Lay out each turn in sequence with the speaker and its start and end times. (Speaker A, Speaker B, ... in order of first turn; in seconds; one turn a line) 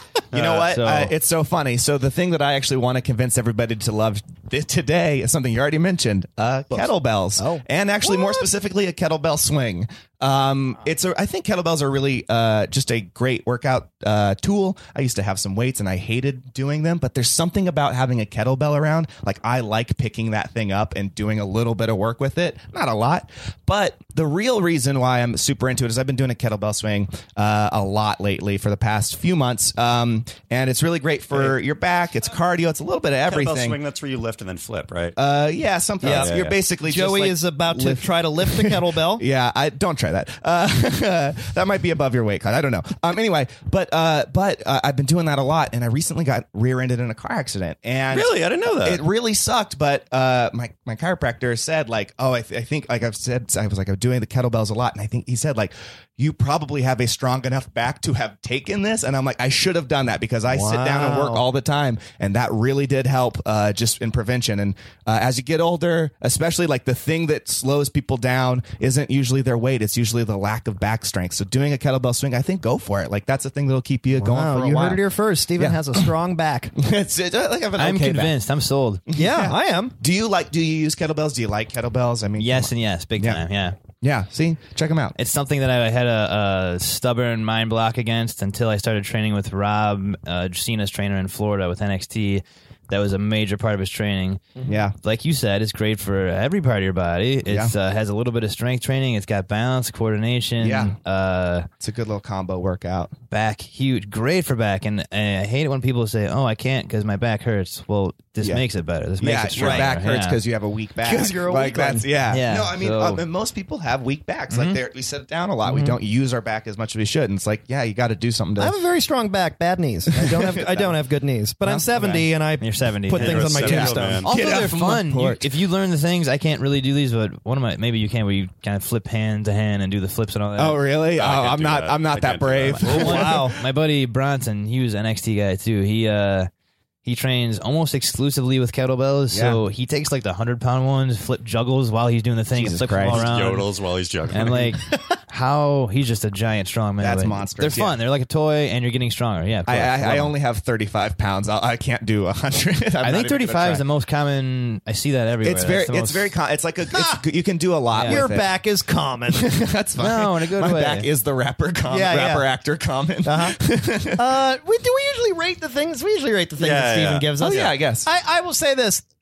Speaker A: 0.3-0.7
Speaker B: 0.3-33.8
Speaker C: 0.6-1.1
Speaker D: 6.7-8.4
Speaker A: 33.3-35.2
Speaker B: 35.2-75.0
Speaker A: 36.0-36.5
Speaker D: 36.0-39.2
Speaker A: 48.1-49.0
Speaker D: 60.5-61.4
Speaker D: 74.2-76.8
Speaker B: 75.6-76.1
Speaker B: 76.8-78.4
Speaker C: 77.8-79.0
Speaker B: 79.1-83.4
Speaker D: 79.2-79.9
Speaker C: 82.4-83.8
Speaker B: 84.0-85.2
Speaker C: 85.2-94.4
Speaker B: 94.7-95.0
Speaker C: 95.0-101.7
Speaker B: 97.5-97.7
Speaker B: 100.6-101.0
Speaker B: 101.8-103.1
Speaker C: 103.3-110.4
Speaker B: 109.2-118.8
Speaker D: 111.0-112.1
Speaker C: 112.3-113.2
Speaker C: 114.5-114.8
Speaker C: 115.7-116.0
Speaker D: 118.6-124.3
Speaker B: 120.1-121.0
Speaker B: 121.6-122.3
Speaker C: 122.6-123.6
Speaker A: 123.1-124.3
Speaker B: 123.6-125.5
Speaker C: 124.2-130.8
Speaker B: 130.6-133.5
Speaker A: 131.2-133.1
Speaker C: 132.8-136.5
Speaker D: 132.9-133.6
Speaker C: 137.1-143.7
Speaker B: 139.3-139.6
Speaker B: 142.5-143.3
Speaker A: 143.1-144.7
Speaker C: 144.3-150.3
Speaker B: 147.0-148.0
Speaker B: 149.7-153.9
Speaker C: 153.0-156.3
Speaker B: 155.4-158.6
Speaker D: 156.9-157.2
Speaker C: 157.9-158.2
Speaker D: 158.1-159.5
Speaker B: 159.3-164.4
Speaker C: 160.0-161.1
Speaker D: 161.9-162.5
Speaker D: 163.2-163.6
Speaker D: 164.2-169.1
Speaker A: 166.6-167.8
Speaker B: 167.4-168.1